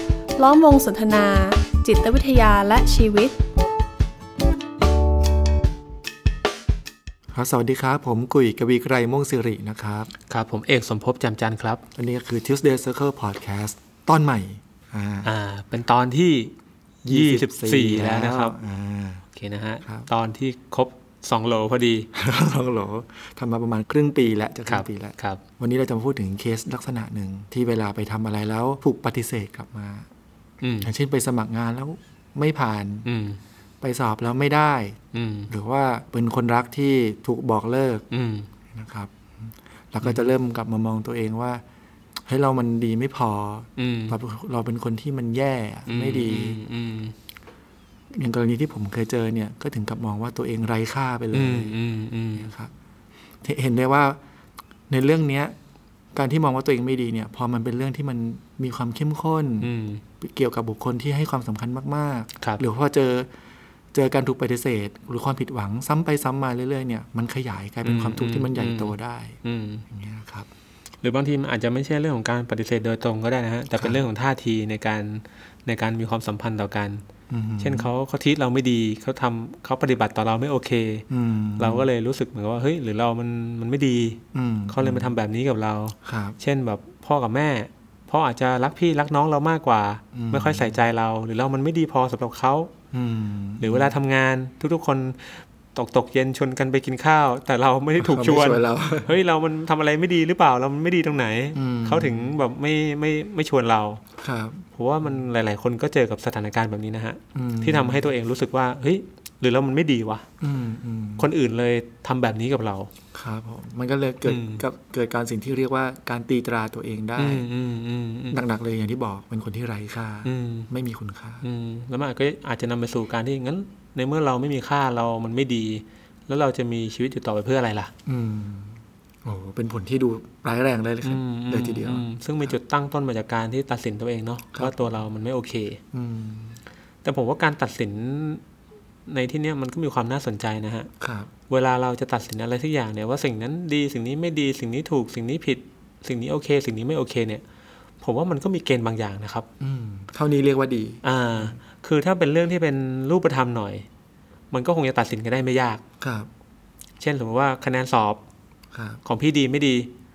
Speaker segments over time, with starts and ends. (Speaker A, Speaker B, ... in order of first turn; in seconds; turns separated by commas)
Speaker A: 0.4-3.4, Speaker B: 7.3-10.1, Speaker C: 10.3-11.8, Speaker B: 11.9-15.3, Speaker C: 15.2-16.5, Speaker B: 17.0-19.2, Speaker C: 17.1-18.5, Speaker C: 19.3-22.1, Speaker B: 19.8-20.1, Speaker B: 22.1-30.1, Speaker C: 24.7-25.4, Speaker C: 30.6-30.9, Speaker B: 30.8-33.1, Speaker C: 33.0-33.4, Speaker B: 33.8-35.0, Speaker C: 35.1-35.5, Speaker B: 35.5-38.0, Speaker C: 38.1-38.5, Speaker B: 38.7-41.6, Speaker C: 40.0-40.3, Speaker B: 42.2-46.6, Speaker C: 43.8-44.2, Speaker C: 45.9-47.1, Speaker B: 48.1-51.8, Speaker C: 51.3-52.5, Speaker B: 52.4-52.7, Speaker B: 53.4-54.2, Speaker B: 54.9-55.5, Speaker B: 56.1-63.3, Speaker C: 59.6-60.0, Speaker B: 63.9-69.4, Speaker C: 67.8-69.8, Speaker B: 69.9-70.5, Speaker C: 71.0-77.0, Speaker B: 73.8-74.0, Speaker B: 77.3-77.9, Speaker C: 77.6-81.0, Speaker B: 81.1-81.9, Speaker C: 81.6-92.7, Speaker B: 84.3-85.1, Speaker B: 86.0-86.4, Speaker B: 90.1-90.8, Speaker B: 92.9-93.9, Speaker C: 93.6-104.0, Speaker B: 98.0-99.1, Speaker B: 101.5-102.3, Speaker B: 104.2-104.6, Speaker C: 104.7-110.3, Speaker B: 107.3-108.1, Speaker B: 110.4-111.3, Speaker C: 111.2-112.9, Speaker B: 113.1-117.5, Speaker C: 114.2-114.6, Speaker C: 117.2-118.4, Speaker B: 118.3-121.4, Speaker C: 120.2-120.7, Speaker C: 121.4-127.9, Speaker B: 128.1-132.5, Speaker C: 131.0-135.8, Speaker B: 134.5-134.9, Speaker B: 135.9-136.6, Speaker C: 137.0-138.4, Speaker C: 139.1-140.9, Speaker B: 141.0-141.3, Speaker C: 141.5-147.4, Speaker C: 148.0-149.5, Speaker B: 149.6-151.6, Speaker C: 151.0-153.9, Speaker C: 154.5-155.8, Speaker B: 156.0-156.3, Speaker C: 157.0-158.2, Speaker B: 158.7-159.0, Speaker C: 159.0-159.9